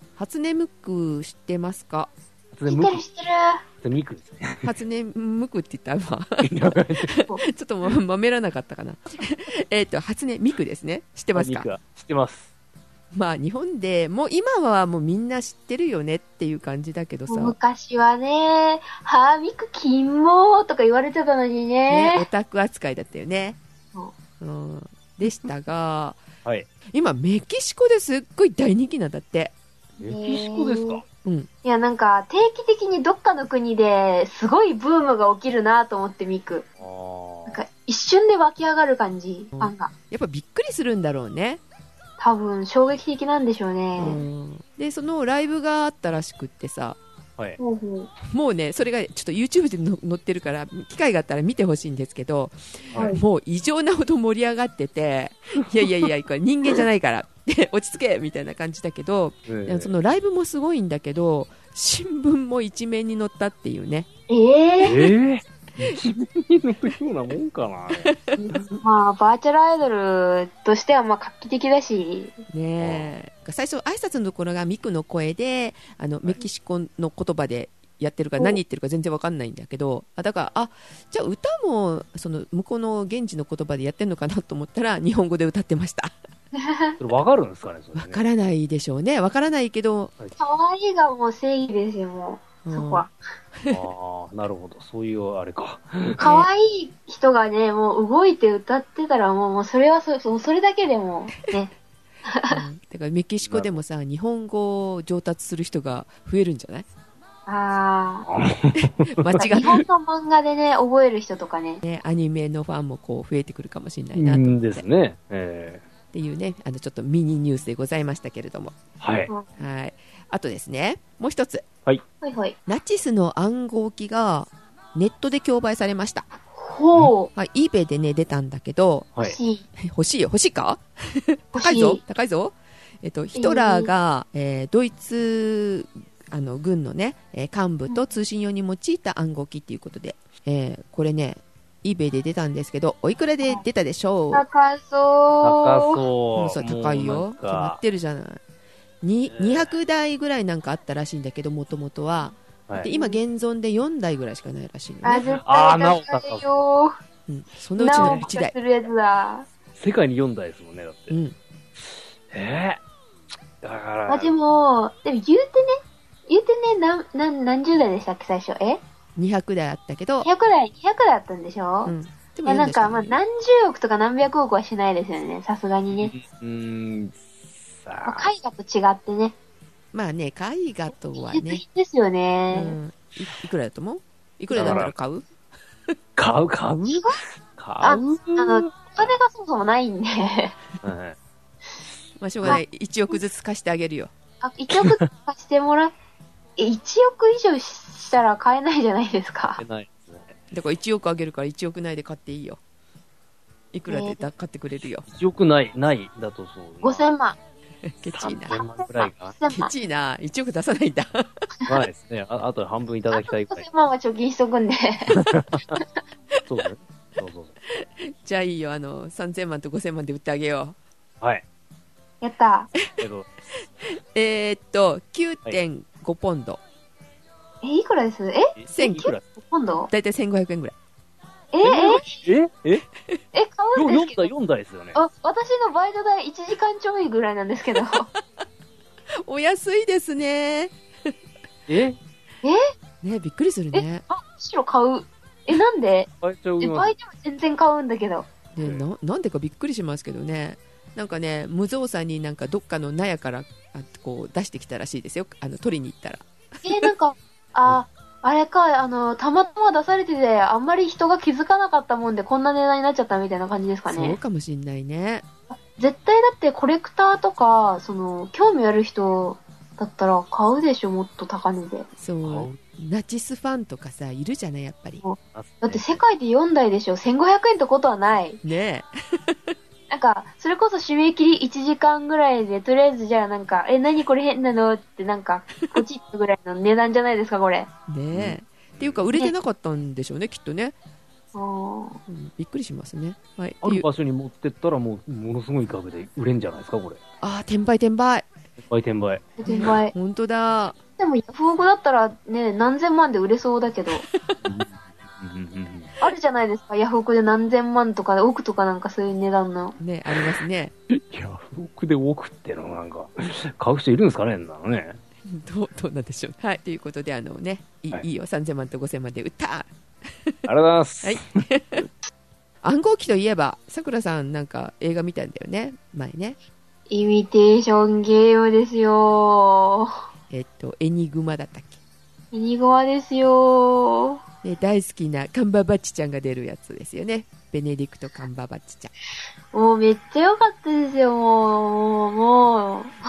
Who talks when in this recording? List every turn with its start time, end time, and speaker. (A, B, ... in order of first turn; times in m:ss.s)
0:00.2-0:02.1 A
0:02.5-0:03.0 B
0:02.6-0:03.6 C
0:03.8-0:04.7 B
0:04.6-0:11.7 A
0:06.4-0:07.1 B
0:11.3-0:12.5 B
0:13.1-0:17.5 A
0:17.3-0:22.3 C
0:21.9-0:23.6 A
0:24.4-0:26.2 A
0:26.9-0:29.5 A
0:30.0-0:31.0 B
0:30.0-0:31.0 C
0:31.6-0:36.6 C
0:36.8-0:37.6 B
0:37.5-0:39.9 C
0:39.5-0:41.6 A
0:42.2-0:44.2 C
0:44.0-0:47.0 A
0:47.6-0:48.1 C
0:48.3-1:04.1 A
0:52.9-0:53.2 C
0:59.5-0:59.9 B
1:04.3-1:05.1 C
1:04.8-1:08.1 B
1:08.0-1:08.4 A
1:08.4-1:12.4 C
1:12.5-1:26.1 A
1:12.8-1:13.1 B
1:26.5-1:27.0 C
1:27.0-1:28.2 B
1:27.9-1:30.1 A
1:30.4-1:33.1 C
1:32.6-1:33.8 A
1:33.7-1:36.2 B
1:36.2-1:41.7 C
1:36.2-1:36.5 A
1:42.3-1:42.6 C
1:42.5-1:46.8 A
1:43.4-1:43.8 B
1:47.5-1:48.3 C
1:48.3-1:49.4 B
1:49.0-1:49.8 A
1:49.4-1:51.8 C
1:51.8-1:54.8 A
1:54.1-1:55.8 B
1:56.1-1:58.8 A
1:59.0-1:59.3 B
1:59.6-2:01.7 A
2:02.2-2:02.6 C
2:02.6-2:06.2 A
2:06.5-2:07.3 C
2:07.3-2:09.1 A
2:09.2-2:09.6 C
2:09.8-2:24.4 A
2:11.5-2:12.0 C
2:13.3-2:13.9 C
2:24.3-2:26.0 C
2:25.4-2:27.8 B
2:26.4-2:28.4 A
2:29.0-2:35.3 A
2:29.2-2:29.8 B
2:32.9-2:33.2 C
2:35.0-2:36.9 C
2:35.3-2:36.6 B
2:37.3-2:38.5 A
2:37.8-2:39.5 C
2:37.9-2:38.3 B
2:39.7-2:41.2 B
2:41.1-2:41.4 A
2:41.8-2:42.8 B
2:43.6-2:44.4 B
2:44.1-2:48.8 C
2:49.2-2:50.3 A
2:50.2-2:51.9 C
2:51.8-2:53.2 A
2:52.4-2:56.1 C
2:56.0-2:58.3 B
2:58.0-2:59.3 C
2:59.9-3:01.6 A
3:01.2-3:02.8 C
3:02.5-3:05.3 A
3:04.5-3:04.9 B
3:04.5-3:04.8 C
3:06.2-3:09.1 B
3:06.9-3:07.2 C
3:07.8-3:10.6 C
3:10.8-3:11.2 B
3:12.2-3:14.1 A
3:14.4-3:15.9 C
3:14.7-3:15.0 B
3:16.6-3:19.6 C
3:19.6-3:20.3 B
3:20.5-3:22.6 A
3:23.7-3:25.0 A
3:23.9-3:24.2 C
3:25.0-3:27.0 B
3:26.8-3:27.4 C
3:27.8-3:28.6 A
3:28.1-3:29.3 B
3:28.5-3:29.7 C
3:29.5-3:31.4 A
3:31.7-3:33.6 B
3:33.1-3:35.2 C
3:35.1-3:35.8 B
3:36.5-3:37.6 B
3:37.7-3:40.8 A
3:42.2-3:42.7 C
3:43.0-3:43.3 B
3:43.8-3:46.6 A
3:47.6-3:49.9 C
3:48.6-3:49.2 B
3:48.7-3:49.1 A
3:49.9-3:50.7 A
3:51.5-3:52.2 C
3:51.6-3:52.8 B
3:53.3-3:54.3 C
3:53.8-3:55.0 B
3:54.9-3:58.1 C
3:57.8-3:58.2 A
3:59.2-4:01.1 A
4:01.7-4:02.0 B
4:03.0-4:04.0 A
4:03.7-4:06.1 C
4:06.2-4:06.9 B
4:06.6-4:08.3 C
4:08.5-4:16.9 A
4:16.6-4:24.2 C
4:23.9-4:25.2 A
4:25.5-4:31.9 C
4:32.0-4:35.0 A
4:32.2-4:32.6 B
4:35.0-4:38.4 C
4:35.3-4:36.0 B
4:38.4-4:39.5 A
4:39.9-4:47.7 C
4:47.9-4:50.7 A
4:48.1-4:49.0 B
4:51.3-4:52.0 C
4:52.1-4:53.8 A
4:53.6-4:57.0 B
4:57.2-4:58.3 A
4:58.6-4:59.7 B
4:59.4-4:59.9 C
4:59.4-5:00.8 A
5:01.0-5:04.0 C
5:04.4-5:05.9 B
5:06.0-5:09.8 C
5:09.8-5:10.7 A
5:10.9-5:15.0 B
5:15.3-5:20.4 A
5:20.4-5:21.4 B
5:21.0-5:21.8 A
5:22.6-5:26.4 A
5:26.9-5:29.9 C
5:30.3-5:31.8 A
5:32.3-5:34.2 C
5:34.4-5:38.9 A
5:39.5-5:42.9 C